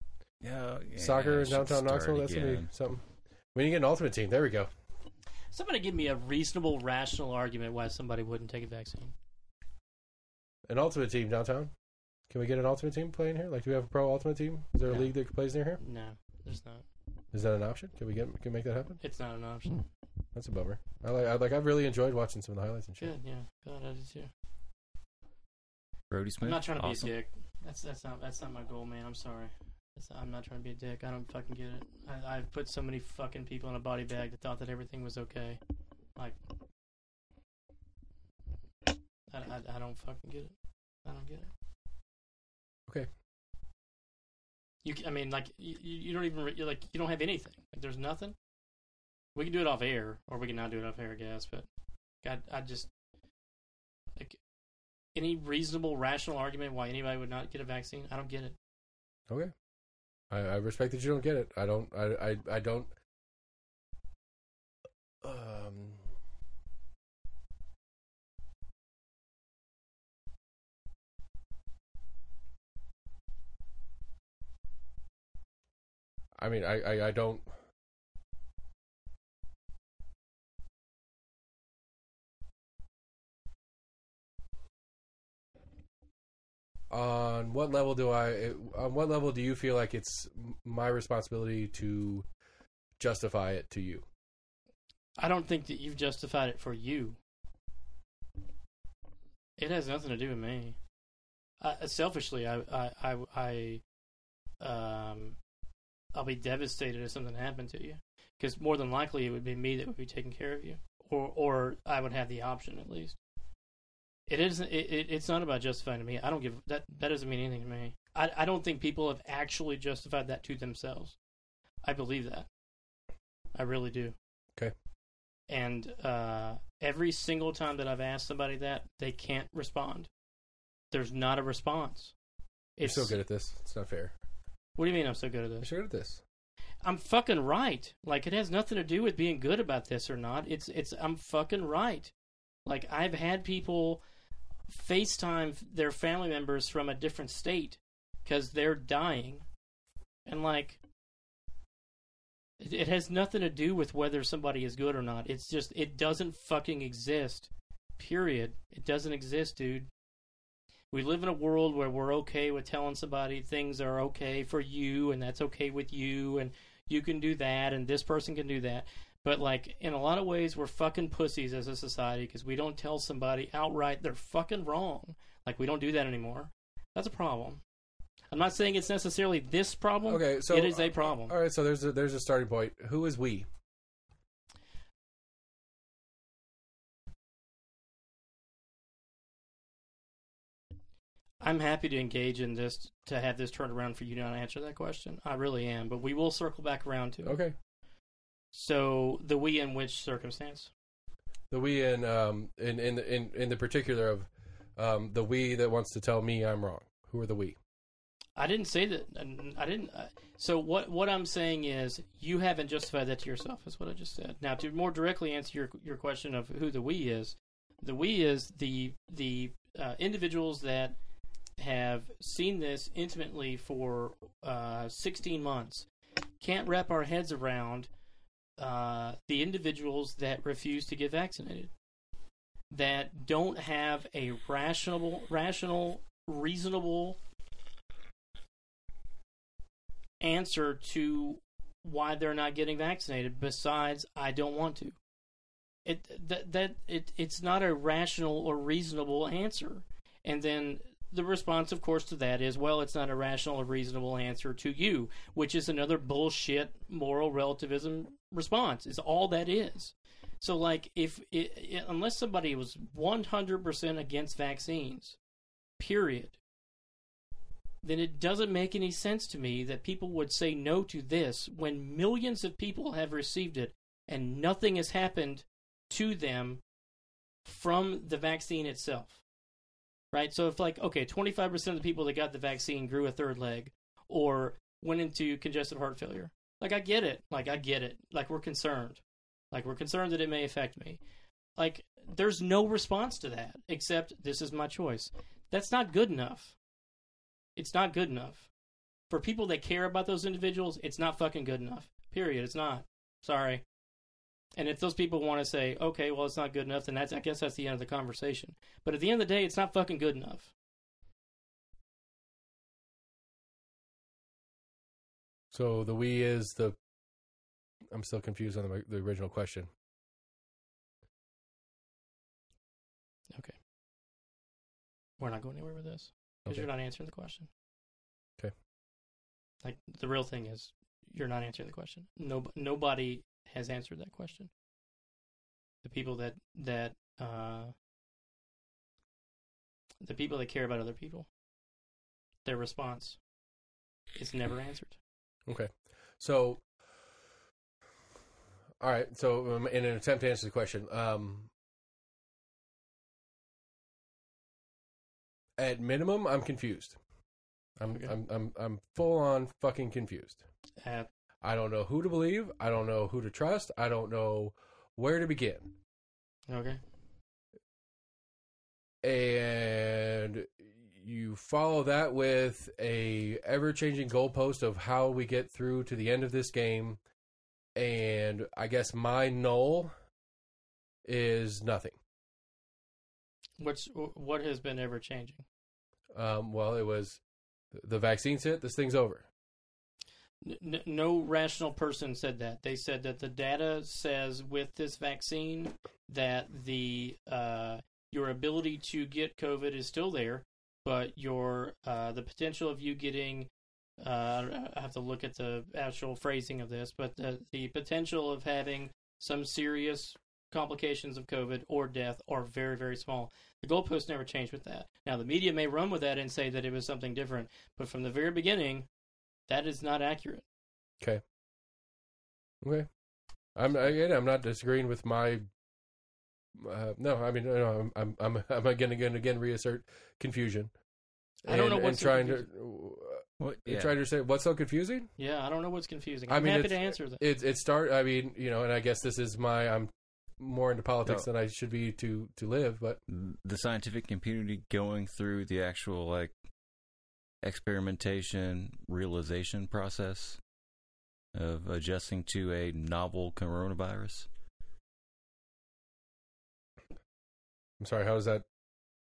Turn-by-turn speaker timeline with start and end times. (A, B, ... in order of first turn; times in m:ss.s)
0:00.4-0:02.7 A
0:01.0-0:04.7 B
0:05.5-0:09.1 C
0:10.7-0:11.7 B
0:12.3-0:15.8 B
0:14.8-0:15.1 C
0:15.8-0:16.8 C
0:17.3-0:19.0 B
0:19.0-0:19.9 C
0:20.3-0:23.1 B
0:23.0-0:24.3 C
0:26.1-0:27.1 A
0:26.4-0:35.6 C
0:39.3-0:40.5 C
0:41.0-0:41.5 C
0:44.8-0:48.4 C
0:49.3-0:51.7 C
0:52.2-0:52.9 C
0:55.1-0:58.6 C
1:00.3-1:02.9 B
1:05.2-1:06.0 B
1:16.4-1:17.5 B
1:26.9-1:32.2 B
1:33.0-1:34.0 B
1:35.2-1:37.2 C
1:39.6-1:40.8 C
1:41.6-1:43.8 C
1:44.6-1:45.4 C
1:46.1-1:53.2 C
1:54.3-2:01.2 C
2:01.8-2:02.5 C
2:03.5-2:04.2 C
2:05.5-2:10.1 C
2:10.9-2:12.1 C
2:12.8-2:13.2 C
2:12.8-2:14.1 B
2:14.8-2:15.7 C
2:15.6-2:16.2 B
2:16.8-2:22.1 C
2:22.6-2:24.0 C
2:24.7-2:29.4 C
2:30.2-2:30.8 C
2:32.6-2:39.9 C
2:40.9-2:57.6 C
2:58.3-3:01.3 C
3:00.1-3:03.5 B
3:11.4-3:17.3 C
3:17.2-3:17.5 B
3:18.5-3:20.7 C
3:21.5-3:27.6 B
3:28.4-3:41.0 C
3:41.6-3:45.9 C
3:46.4-3:47.9 C
3:48.6-3:51.7 C
3:52.7-3:57.2 C
4:00.2-4:05.0 C
4:05.8-4:25.2 C
4:25.8-4:26.4 C
4:27.8-4:36.6 C
4:37.4-4:39.2 C
4:40.1-4:51.0 C
4:51.6-4:56.6 C
4:57.6-4:58.5 C
4:59.1-5:03.6 C
5:04.5-5:10.5 C
5:15.5-5:16.8 B
5:17.9-5:19.7 B
5:25.2-5:27.5 C
5:29.6-5:34.5 C
5:35.8-5:37.7 C
5:40.0-5:41.3 C
5:42.4-5:43.2 C
5:44.1-5:45.0 C
5:45.5-5:46.6 B
5:48.8-5:51.5 B
5:55.6-5:57.0 B
5:57.8-6:00.4 B
6:00.8-6:01.1 C
6:01.4-6:05.7 B
6:06.5-6:06.8 C
6:09.0-6:17.0 B
6:17.8-6:19.9 B
6:21.0-6:22.0 B
6:23.6-6:25.4 C
6:26.1-6:27.2 B
6:27.7-6:29.2 B
6:30.4-6:43.5 C
6:44.0-6:58.9 C
6:59.5-7:00.4 C
7:02.6-7:02.9 B
7:03.6-7:05.4 B
7:06.6-7:10.7 B
7:11.5-7:15.1 B
7:11.5-7:12.4 C
7:13.4-7:13.9 A
7:15.2-7:17.2 C
7:16.3-7:23.0 B
7:23.1-7:26.3 A
7:27.4-7:30.4 A
7:31.3-7:34.3 A
7:37.8-7:38.4 B